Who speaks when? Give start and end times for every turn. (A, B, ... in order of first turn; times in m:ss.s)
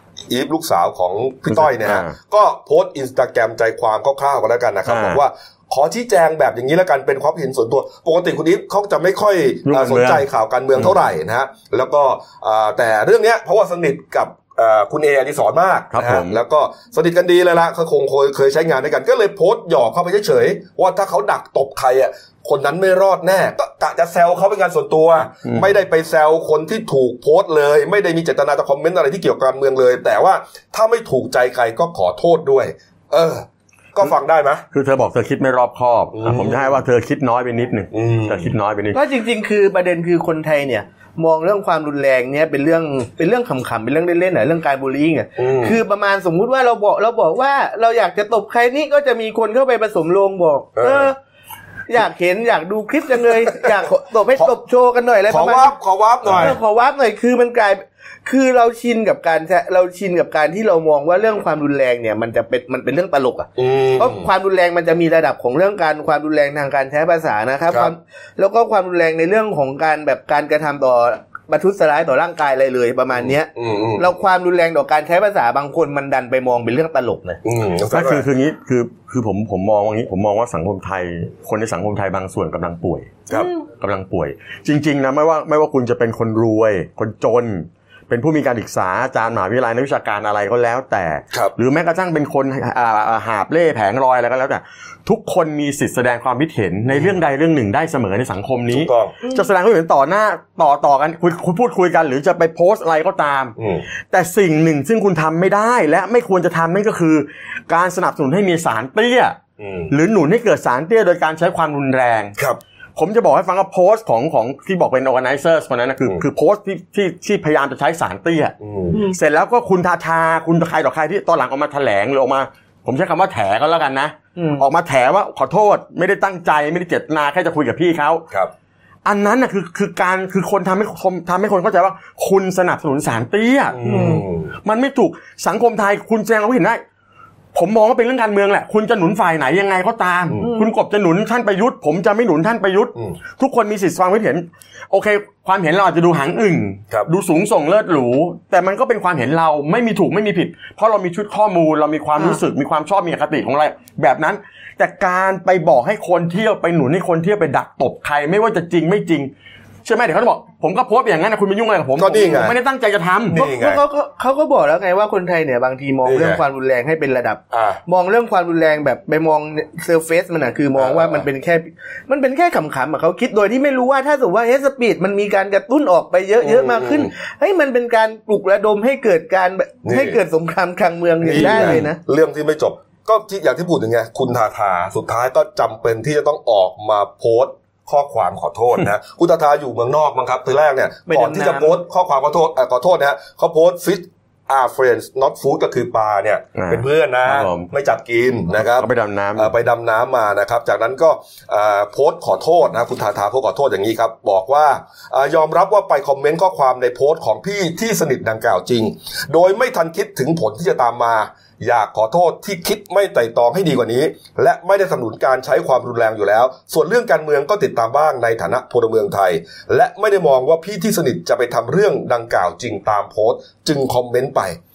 0:00.3-0:34.6 A
0:01.5-0:02.2 B
0:04.9-0:05.2 B
0:09.7-0:10.9 B
0:15.9-0:16.4 B
0:25.4-0:25.7 B
0:34.7-0:39.0 B
0:36.2-0:36.8 A
0:37.9-0:38.5 A
0:38.9-0:51.2 C
0:45.4-0:45.8 A
0:50.8-0:51.1 A
0:51.9-0:55.7 C
0:55.3-0:56.6 A
0:56.3-1:17.4 C
1:03.6-1:04.3 A
1:13.1-1:14.1 A
1:17.4-1:18.3 A
1:17.9-1:23.2 B
1:23.3-1:23.6 C
1:23.8-1:43.6 B
1:36.9-1:37.2 A
1:38.7-1:39.2 A
1:39.2-1:39.5 C
1:43.6-1:43.8 A
1:44.1-1:49.4 B
1:49.6-1:49.9 A
1:49.9-1:52.4 B
1:53.0-2:08.2 B
1:58.6-1:59.0 A
1:58.9-1:59.2 C
2:04.4-2:04.6 C
2:09.0-2:13.8 B
2:13.8-2:14.5 A
2:13.8-2:14.2 C
2:14.6-2:16.8 B
2:17.5-2:39.3 B
2:20.4-2:20.7 C
2:39.8-2:43.4 B
2:42.0-2:42.6 A
2:43.3-2:43.8 A
2:43.3-3:02.0 C
2:46.0-2:46.4 A
2:47.5-2:47.8 A
2:50.8-2:51.3 A
2:56.4-2:57.1 A
2:59.8-3:00.2 A
3:01.2-3:44.6 A
3:01.4-3:01.9 B
3:11.1-3:11.8 C
3:16.6-3:17.7 B
3:18.6-3:19.5 B